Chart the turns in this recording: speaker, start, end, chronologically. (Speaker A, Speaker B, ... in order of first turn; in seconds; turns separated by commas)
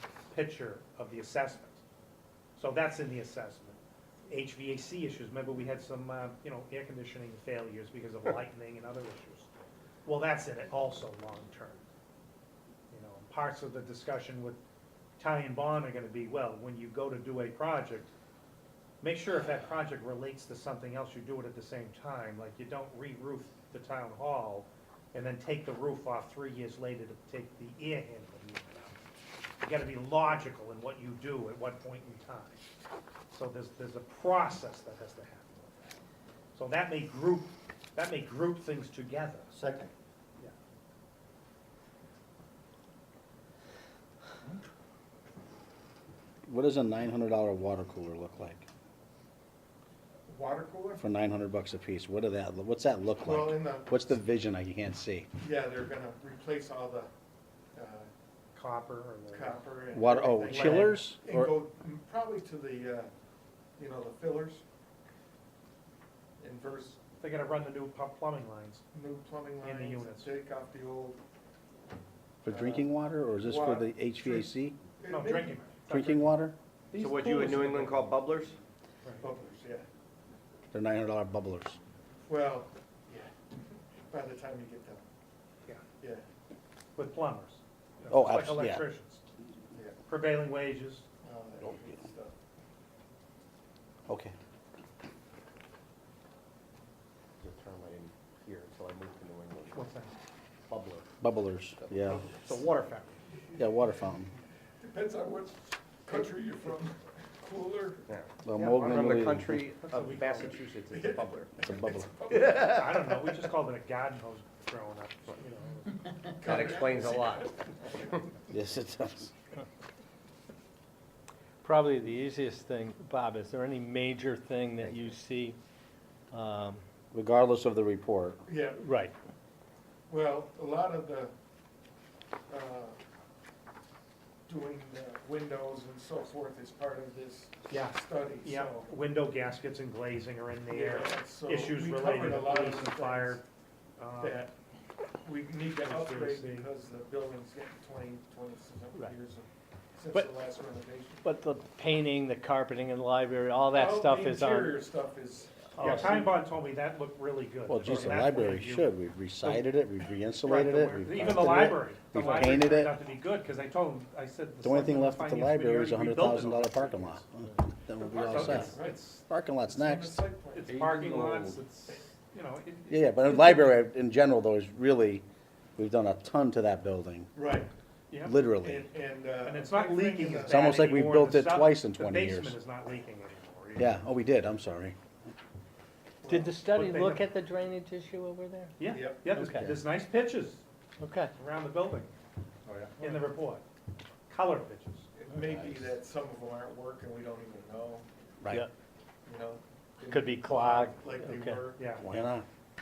Speaker A: 0.3-1.8, Speaker A: 2.5-9.5, Speaker A: 10.0-11.8, Speaker A: 12.9-14.6, Speaker A: 15.2-18.1, Speaker A: 19.0-29.0, Speaker A: 29.6-32.6, Speaker A: 33.3-36.0, Speaker A: 36.5-39.5, Speaker B: 39.5-39.9, Speaker C: 46.5-48.7, Speaker D: 50.3-51.0, Speaker C: 51.0-55.3, Speaker D: 53.2-54.0, Speaker D: 55.4-57.1, Speaker D: 57.7-58.1, Speaker A: 58.5-59.7, Speaker D: 59.3-63.1, Speaker C: 59.9-61.5, Speaker A: 60.5-61.0, Speaker D: 63.8-64.6, Speaker D: 66.4-67.0, Speaker A: 67.2-68.8, Speaker D: 68.9-71.2, Speaker A: 69.6-70.3, Speaker C: 72.4-74.8, Speaker D: 72.5-74.5, Speaker D: 75.0-75.6, Speaker A: 75.0-76.3, Speaker C: 75.9-76.5, Speaker A: 76.9-78.0, Speaker B: 77.0-78.6, Speaker D: 79.2-79.9, Speaker C: 80.7-81.8, Speaker D: 82.2-83.3, Speaker D: 84.1-85.0, Speaker D: 86.0-86.2, Speaker A: 87.0-89.2, Speaker C: 88.1-88.8, Speaker A: 90.0-91.1, Speaker D: 91.2-92.3, Speaker C: 94.1-94.3, Speaker B: 97.4-99.9, Speaker A: 99.7-100.1, Speaker B: 100.7-101.1, Speaker C: 101.2-102.3, Speaker B: 101.8-102.5, Speaker A: 102.1-103.2, Speaker C: 103.6-104.3, Speaker D: 104.8-108.1, Speaker B: 108.1-111.6, Speaker C: 108.4-109.6, Speaker A: 109.8-110.6, Speaker D: 110.9-112.9, Speaker C: 111.6-112.1, Speaker B: 112.3-113.3, Speaker A: 112.5-116.2, Speaker D: 116.3-117.9, Speaker B: 116.4-118.1, Speaker C: 118.5-119.3, Speaker E: 121.6-125.6, Speaker E: 126.3-126.8, Speaker C: 127.1-128.4, Speaker D: 128.4-128.8, Speaker E: 128.8-129.1, Speaker D: 130.1-131.3, Speaker D: 132.5-133.0, Speaker D: 134.5-138.9, Speaker A: 137.7-143.4, Speaker D: 140.7-143.4, Speaker A: 144.0-144.4, Speaker D: 144.2-144.5, Speaker D: 145.2-151.2, Speaker A: 145.8-146.7, Speaker E: 151.2-154.8, Speaker D: 153.7-156.3, Speaker A: 155.8-158.9, Speaker E: 155.8-156.2, Speaker C: 157.7-163.0, Speaker A: 160.4-167.3, Speaker C: 164.6-170.2, Speaker D: 168.0-169.1, Speaker A: 168.2-169.2, Speaker D: 169.7-170.7, Speaker A: 170.5-173.8, Speaker B: 170.7-171.6, Speaker C: 172.9-175.2, Speaker C: 175.8-177.3, Speaker D: 177.3-177.7, Speaker A: 178.1-178.4, Speaker C: 178.2-178.9, Speaker D: 178.6-180.7, Speaker A: 179.4-184.0, Speaker C: 180.4-182.6, Speaker C: 183.8-185.0, Speaker D: 186.2-186.6, Speaker E: 186.2-189.8, Speaker A: 186.7-187.3, Speaker A: 188.8-190.6, Speaker D: 188.9-189.3, Speaker E: 191.0-191.3, Speaker A: 191.3-192.1, Speaker A: 193.0-193.6, Speaker A: 194.3-195.1, Speaker D: 195.1-198.1, Speaker C: 198.4-198.7, Speaker D: 199.2-202.1, Speaker E: 200.0-201.6, Speaker A: 201.8-202.2, Speaker C: 202.0-202.4